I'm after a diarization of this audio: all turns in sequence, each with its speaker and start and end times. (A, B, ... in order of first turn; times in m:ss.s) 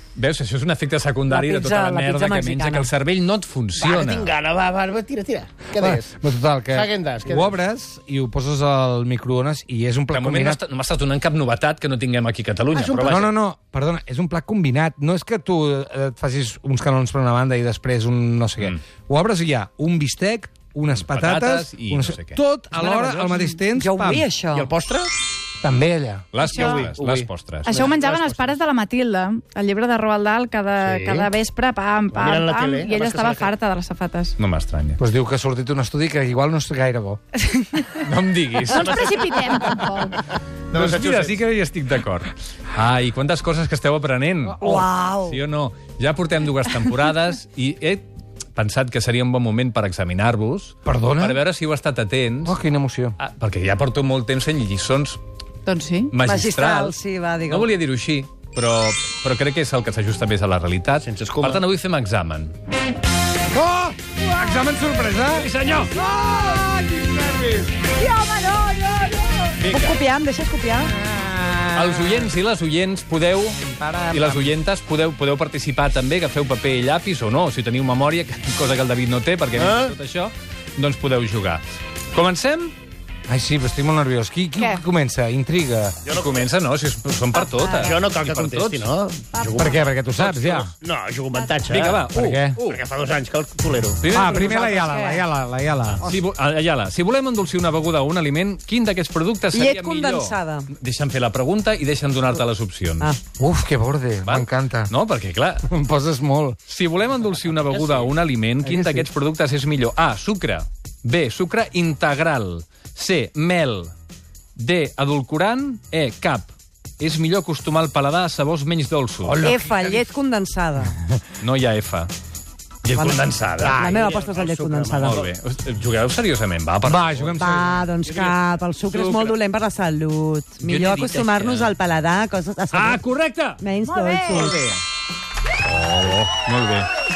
0:00.1-0:04.3 A
0:01.3-0:02.9 B
0:03.8-0:06.1 C
0:05.7-0:10.6 D
0:06.7-0:07.6 C
0:10.1-0:13.3 A
0:12.7-0:13.3 C
0:13.0-0:24.3 D
0:21.0-0:22.4 A
0:23.2-0:23.6 E
0:23.7-0:24.7 B
0:24.5-0:25.1 C
0:25.6-0:26.9 D
0:26.3-0:27.8 A
0:26.4-0:26.9 E
0:26.5-0:28.6 C
0:27.7-0:34.3 E
0:30.8-0:31.3 C
0:32.1-0:33.5 C
0:34.4-0:35.0 A
0:35.0-0:37.2 D
0:37.4-0:38.0 E
0:38.0-0:39.3 A
0:38.6-0:40.2 E
0:40.7-0:41.4 C
0:40.7-0:44.6 A
0:44.5-0:44.9 D
0:44.6-0:45.4 B
0:45.3-0:52.6 A
0:50.8-0:51.4 D
0:52.4-0:53.2 D
0:53.2-0:55.2 A
0:55.6-0:56.1 E
0:56.1-1:02.5 A
0:56.2-0:57.7 B
1:01.0-1:01.6 C
1:03.5-1:07.9 D
1:05.3-1:05.9 A
1:07.9-1:11.0 B
1:09.6-1:10.0 A
1:10.9-1:12.3 D
1:11.7-1:22.7 A
1:13.6-1:14.5 D
1:19.5-1:20.0 C
1:23.3-1:26.0 D
1:26.0-1:26.5 C
1:26.1-1:28.9 A
1:27.3-1:28.0 E
1:27.8-1:29.8 C
1:29.3-1:29.8 E
1:29.6-1:30.7 D
1:30.2-1:30.7 A
1:30.8-1:32.1 C
1:31.7-1:32.8 A
1:32.1-1:32.6 D
1:32.6-1:34.1 C
1:34.0-1:34.6 A
1:34.1-1:36.0 D
1:34.2-1:35.2 E
1:36.0-1:43.1 A
1:39.5-1:40.7 B
1:43.4-1:44.9 D
1:44.2-1:45.7 A
1:45.6-1:46.6 D
1:46.7-1:53.9 A
1:48.6-1:49.1 D
1:54.6-1:59.4 A
1:59.2-2:00.1 D
1:59.4-2:01.0 B
2:01.4-2:02.1 A
2:02.8-2:03.8 A
2:02.9-2:03.2 B
2:03.6-2:05.3 C
2:03.6-2:04.0 D
2:03.7-2:05.2 B
2:05.0-2:07.4 A
2:06.8-2:07.9 D
2:07.4-2:13.0 B
2:08.0-2:09.4 A
2:10.6-2:11.7 A
2:12.7-2:13.6 A
2:13.6-2:14.6 B
2:13.8-2:14.5 E
2:14.3-2:14.8 A
2:15.6-2:16.9 A